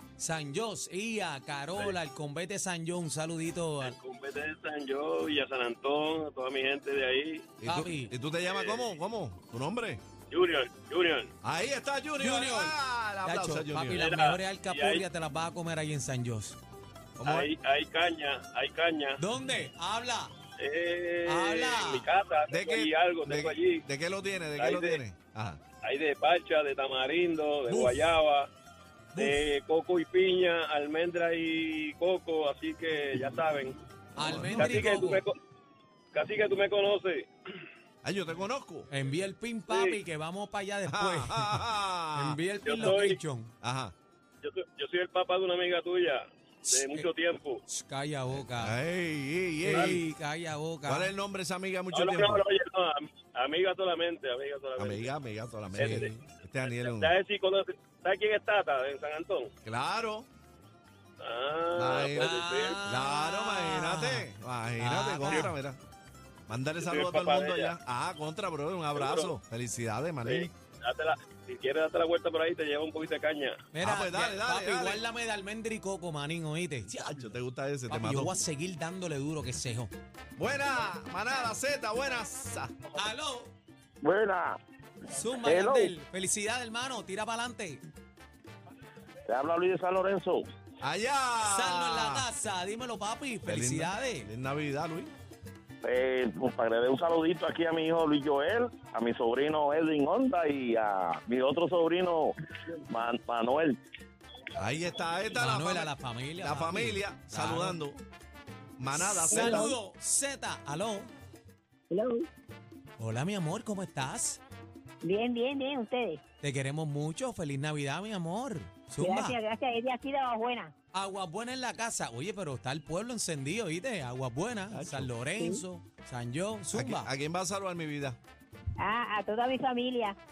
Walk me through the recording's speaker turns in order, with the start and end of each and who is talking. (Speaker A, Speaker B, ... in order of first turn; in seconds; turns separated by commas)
Speaker A: 0.2-3.9, Speaker B: 3.8-7.5, Speaker C: 7.6-10.0, Speaker A: 7.6-8.1, Speaker B: 8.5-8.9, Speaker B: 10.3-11.3, Speaker C: 11.4-14.0, Speaker A: 12.2-16.6, Speaker B: 14.0-15.0, Speaker C: 17.2-17.5, Speaker B: 17.2-19.2, Speaker A: 19.2-20.3, Speaker B: 20.6-23.8, Speaker A: 21.2-22.1, Speaker C: 22.5-25.6, Speaker B: 24.6-25.0, Speaker B: 25.8-28.5, Speaker B: 29.1-33.8, Speaker A: 34.1-35.2, Speaker C: 34.2-34.9, Speaker B: 34.5-35.3, Speaker B: 36.1-37.3, Speaker C: 38.0-38.9, Speaker A: 38.9-43.5, Speaker B: 39.7-40.0, Speaker C: 40.9-42.4, Speaker B: 42.6-43.2, Speaker C: 43.6-43.9, Speaker B: 44.4-47.6, Speaker A: 46.6-47.1, Speaker A: 47.7-48.8, Speaker C: 48.3-50.1, Speaker A: 49.6-51.1, Speaker B: 49.7-50.0, Speaker C: 50.9-52.4, Speaker B: 51.9-55.1, Speaker C: 54.8-57.1, Speaker B: 55.7-56.1, Speaker A: 55.8-56.1, Speaker B: 56.6-59.5, Speaker C: 59.6-60.3, Speaker B: 61.2-62.8, Speaker C: 61.8-65.8, Speaker A: 62.1-65.6, Speaker C: 66.5-70.5, Speaker B: 66.8-67.7, Speaker B: 68.9-69.3, Speaker B: 70.2-73.6, Speaker A: 73.7-77.0, Speaker C: 73.8-75.0, Speaker C: 76.9-78.4, Speaker A: 77.9-79.9, Speaker C: 80.3-82.7, Speaker A: 83.0-83.5, Speaker D: 84.0-84.6, Speaker A: 85.1-87.8, Speaker D: 85.4-85.9, Speaker D: 89.3-90.5, Speaker C: 90.8-92.3, Speaker A: 91.4-94.3, Speaker C: 93.4-95.1, Speaker D: 95.8-103.8, Speaker C: 104.6-108.0, Speaker A: 105.3-107.8, Speaker C: 108.8-109.7, Speaker E: 109.3-109.7, Speaker A: 109.3-111.1, Speaker E: 111.9-112.3, Speaker A: 113.0-114.4, Speaker E: 115.0-116.2, Speaker A: 116.4-119.4, Speaker E: 119.0-120.7, Speaker A: 120.9-127.1, Speaker C: 124.7-125.1, Speaker E: 125.3-125.6, Speaker C: 126.7-128.2, Speaker E: 128.8-130.2